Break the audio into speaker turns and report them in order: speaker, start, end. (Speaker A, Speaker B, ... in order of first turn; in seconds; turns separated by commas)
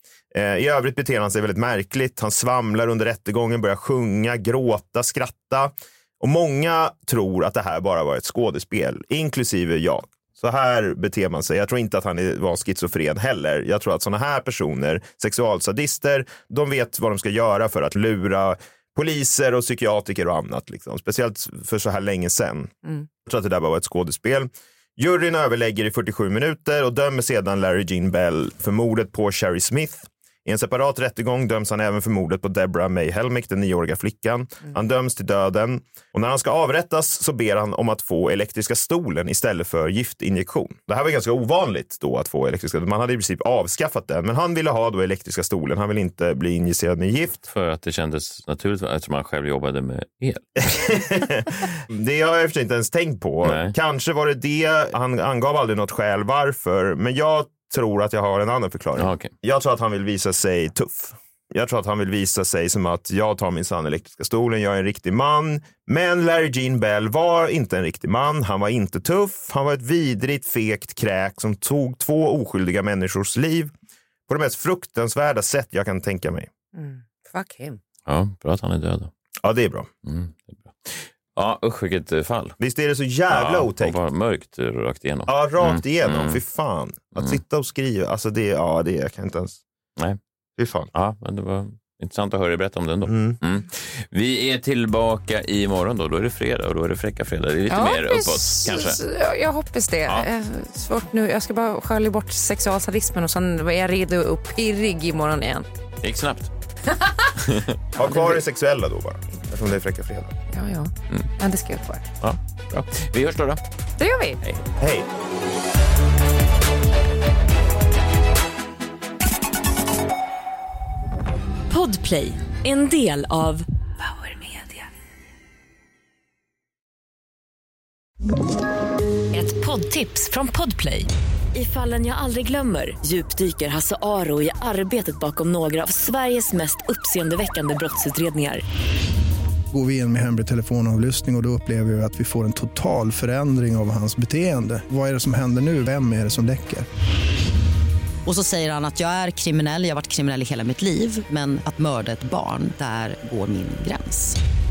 Speaker A: 0.3-47.4, Speaker B: 47.5-50.5, Speaker A: 50.6-73.7, Speaker B: 53.4-53.8, Speaker B: 59.0-59.3, Speaker A: 74.3-76.5, Speaker C: 76.8-77.8, Speaker B: 78.1-79.1, Speaker A: 79.4-79.9, Speaker B: 80.0-82.6, Speaker A: 82.6-84.0, Speaker B: 83.3-86.4, Speaker A: 85.3-89.6, Speaker A: 90.6-90.9, Speaker B: 90.9-99.0, Speaker A: 93.1-93.4, Speaker C: 97.7-105.8, Speaker B: 106.0-106.5, Speaker C: 106.9-107.3, Speaker B: 107.4-107.8, Speaker A: 108.0-110.4, Speaker C: 108.0-108.4, Speaker C: 110.5-112.1, Speaker B: 112.2-113.6, Speaker C: 114.0-114.4, Speaker A: 114.8-115.1, Speaker D: 121.7-124.9, Speaker D: 129.3-138.6, Speaker E: 139.7-146.9, Speaker F: 148.3-154.4